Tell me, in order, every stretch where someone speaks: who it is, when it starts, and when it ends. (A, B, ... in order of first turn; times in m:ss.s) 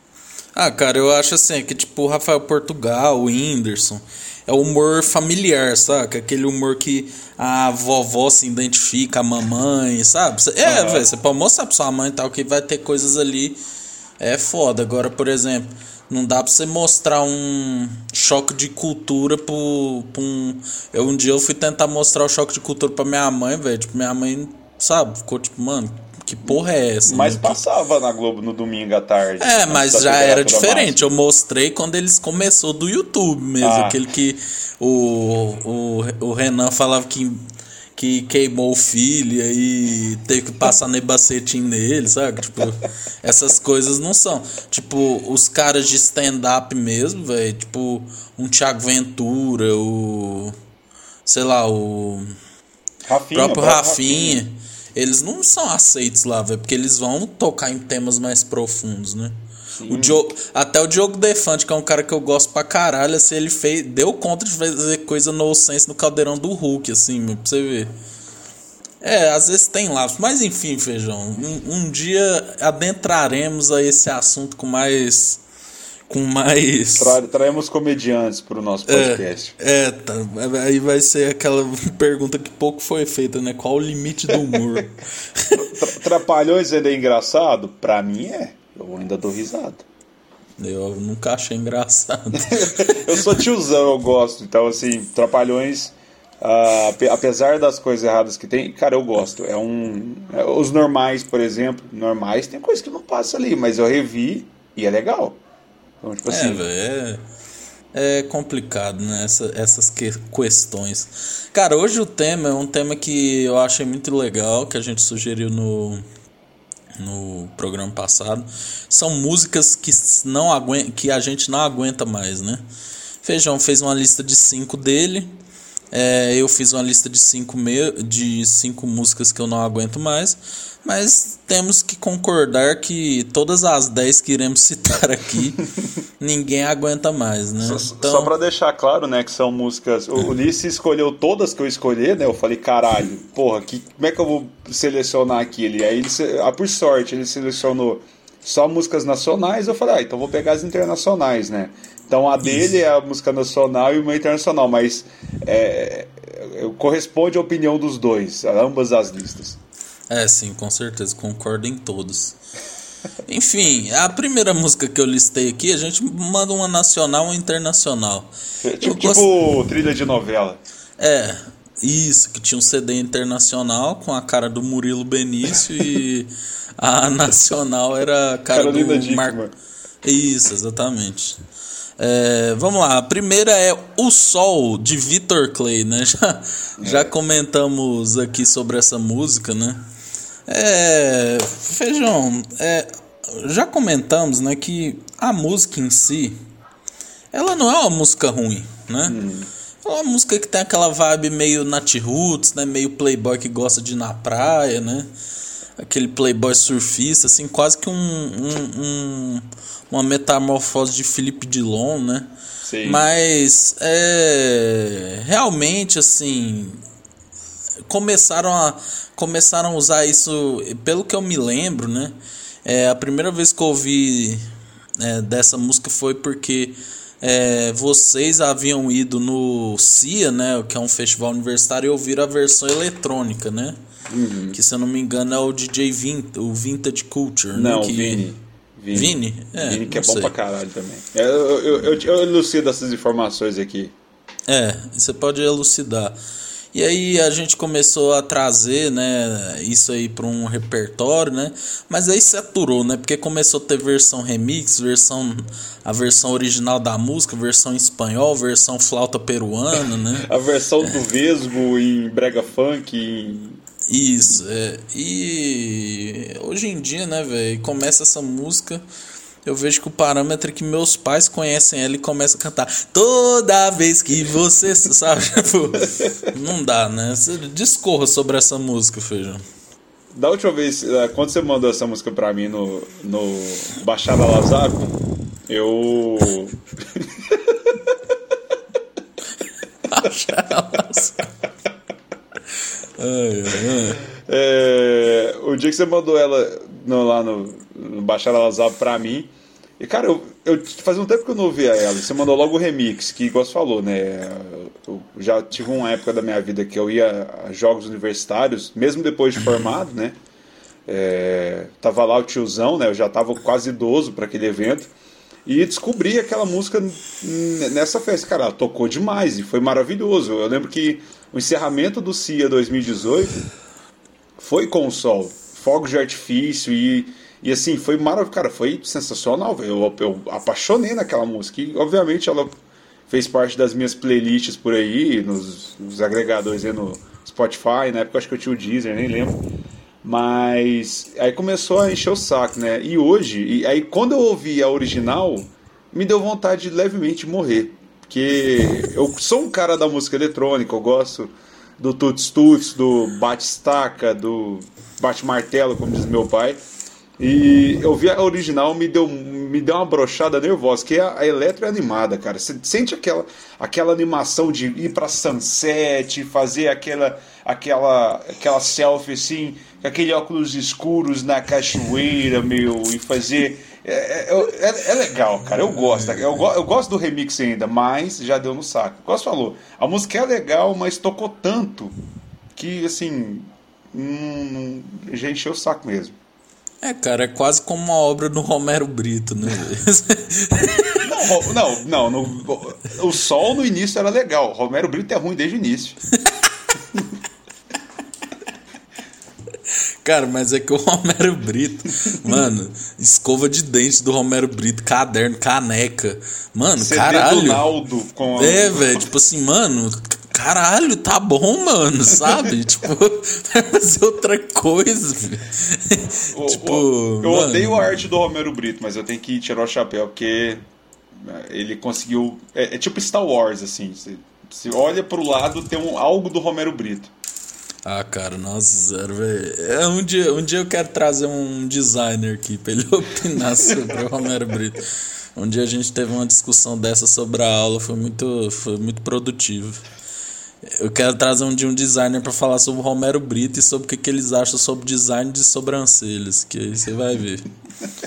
0:00.5-0:13.6 A
0:10.6-0:11.1 B
0:14.2-0:27.6 A
0:26.4-0:31.1 B
0:29.4-0:37.4 A
0:33.6-0:34.0 B
0:38.0-0:50.6 A
0:51.2-0:52.3 A
0:53.0-0:54.4 B
0:53.3-0:59.3 A
0:59.8-1:00.2 B
0:59.9-1:07.9 A
1:09.0-1:15.4 A
1:16.1-1:17.2 A
1:16.9-1:19.6 B
1:18.9-1:25.7 A
1:25.5-1:29.8 B
1:30.6-1:33.3 A
1:32.3-1:45.4 B
1:46.0-1:46.6 B
1:46.2-1:47.2 A
1:47.9-1:56.0 A
1:57.0-2:02.6 A
2:03.2-2:05.3 A
2:05.9-2:15.6 A
2:16.2-2:18.3 A
2:17.6-2:39.6 B
2:32.4-2:32.7 A
2:40.1-2:42.4 A
2:43.2-2:49.3 A
2:48.6-2:50.6 B
2:51.0-2:59.4 A
2:58.5-2:59.5 B
3:00.0-3:01.4 A
3:02.0-3:09.8 A
3:06.8-3:07.1 B
3:10.5-3:16.4 A
3:17.3-3:19.2 A
3:19.0-3:19.5 B
3:19.8-3:25.1 A
3:25.8-3:32.3 A
3:32.6-3:33.0 B
3:32.8-3:36.8 A
3:37.9-3:44.4 A
3:45.0-3:53.8 A
3:54.1-3:54.6 B
3:54.5-3:58.2 A
3:57.5-4:03.9 B
3:58.9-4:00.3 A
4:04.5-4:06.2 A
4:06.7-4:20.3 A
4:20.2-4:23.6 B
4:23.9-4:28.8 A
4:29.4-4:39.4 A
4:35.9-4:36.3 B
4:40.1-4:44.9 B
4:45.5-4:48.1 B
4:49.9-4:51.3 A
4:53.0-4:54.0 A
4:54.2-5:10.1 B
5:10.9-5:14.9 B
5:15.5-5:23.4 B
5:24.4-5:32.5 B
5:33.1-5:39.4 B
5:40.0-5:56.6 B
5:57.2-6:21.9 B
6:15.7-6:16.3 A
6:22.6-6:26.2 B
6:26.8-6:31.1 A
6:31.0-6:36.0 B
6:39.7-6:47.7 A
6:46.8-6:49.1 B
6:48.3-6:58.0 A
6:56.3-7:00.6 B
7:01.2-7:07.1 B
7:07.8-7:19.8 A
7:20.6-7:27.5 A